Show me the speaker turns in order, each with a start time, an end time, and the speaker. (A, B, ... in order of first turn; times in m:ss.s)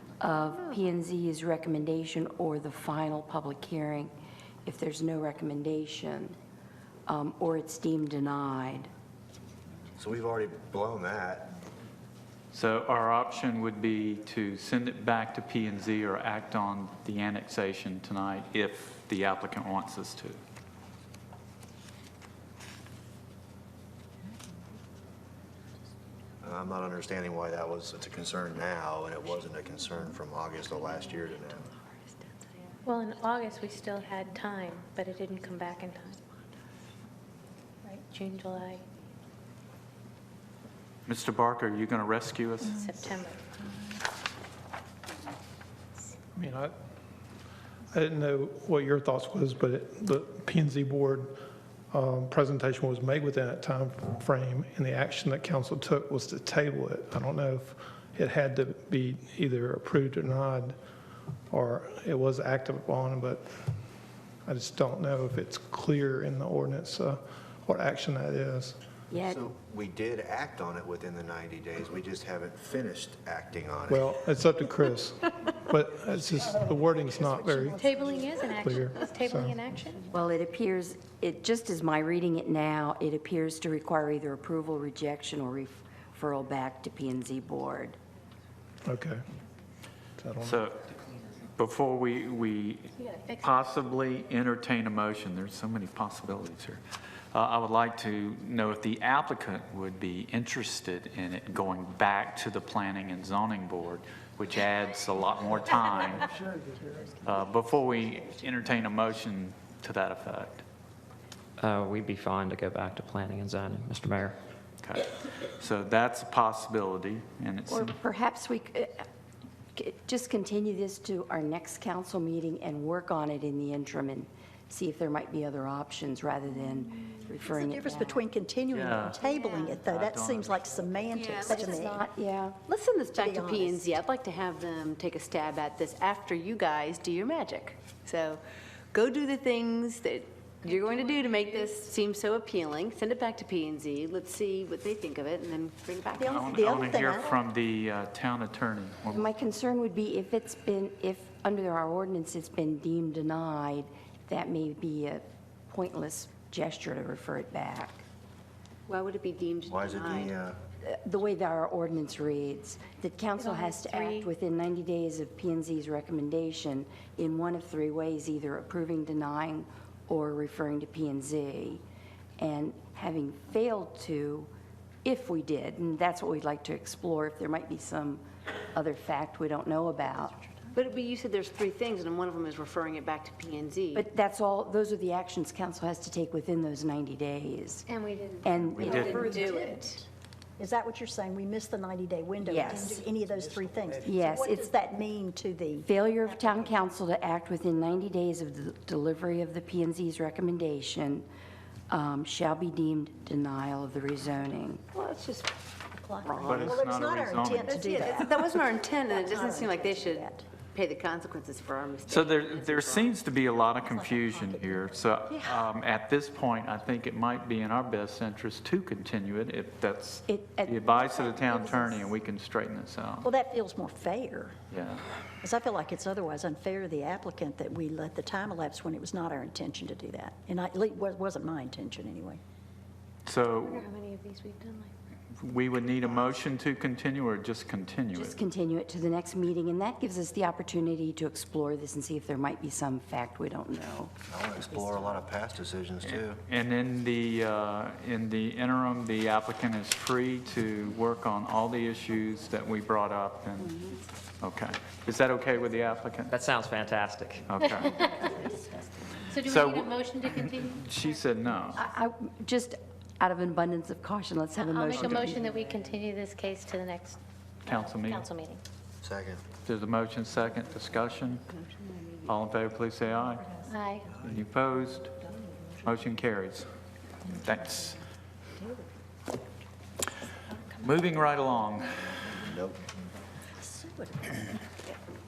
0:00.2-0:04.1 A
0:04.6-0:06.4 A
0:07.1-0:08.9 A
0:10.0-0:11.5 B
0:12.5-0:20.4 C
0:26.4-0:31.7 B
0:32.8-0:36.2 D
0:38.1-0:38.8 D
0:41.0-0:42.9 C
0:42.7-0:43.4 D
0:46.4-0:46.7 E
0:47.9-0:51.4 E
0:51.9-1:00.8 E
1:01.5-1:03.5 E
1:04.4-1:08.8 E
1:09.1-1:09.4 A
1:09.2-1:14.1 B
1:13.9-1:17.8 E
1:17.8-1:20.0 D
1:18.5-1:19.6 E
1:20.1-1:28.0 A
1:28.8-1:29.2 E
1:30.2-1:30.6 E
1:30.4-1:30.9 C
1:31.6-1:36.8 C
1:33.0-1:33.7 D
1:37.3-1:46.3 C
1:47.2-1:50.6 C
1:51.6-1:54.4 F
1:54.8-1:57.9 C
1:57.7-1:59.1 A
1:59.8-2:08.2 A
2:07.4-2:12.0 G
2:08.7-2:11.3 C
2:09.3-2:09.8 H
2:11.2-2:11.7 H
2:11.5-2:12.6 A
2:12.7-2:18.4 H
2:13.1-2:13.9 G
2:18.9-2:26.6 H
2:20.7-2:21.8 D
2:26.2-2:27.4 G
2:26.3-2:29.3 C
2:29.1-2:38.0 A
2:38.9-2:40.4 H
2:39.7-2:40.6 B
2:40.8-2:51.8 A
2:43.4-2:44.3 D
2:52.4-2:54.5 A
2:55.0-3:00.3 A
3:00.7-3:04.0 H
3:04.0-3:07.9 A
3:07.9-3:09.2 D
3:08.4-3:09.4 A
3:08.6-3:09.3 C
3:08.8-3:10.0 H
3:08.8-3:10.0 G
3:10.6-3:16.7 G
3:12.4-3:13.0 A
3:14.0-3:14.7 A
3:15.8-3:21.3 A
3:21.9-3:25.0 A
3:25.1-3:25.4 H
3:25.9-3:30.5 G
3:26.4-3:28.1 C
3:27.6-3:33.2 H
3:32.1-3:43.3 C
3:33.6-3:35.0 G
3:35.3-3:35.6 H
3:40.3-3:42.1 A
3:43.2-3:44.6 G
3:44.7-3:45.0 C
3:45.4-3:52.4 G
3:53.2-3:53.9 C
3:53.6-3:54.9 D
3:55.4-3:58.4 C
3:56.0-3:56.3 B
3:58.1-4:04.1 A
4:04.3-4:06.4 B
4:06.1-4:13.8 C
4:14.4-4:16.3 C
4:16.3-4:17.5 F
4:17.5-4:18.0 C
4:19.3-4:20.8 D
4:19.4-4:21.8 C
4:21.8-4:25.5 A
4:24.6-4:28.6 D
4:27.6-4:28.3 C
4:29.0-4:29.4 B
4:29.6-4:31.4 C
4:31.5-4:32.3 H
4:32.2-4:33.5 C
4:33.6-4:34.1 D
4:34.1-4:35.1 C
4:35.8-4:36.7 C
4:37.3-4:38.0 C
4:40.8-4:42.2 C
4:43.6-4:44.5 G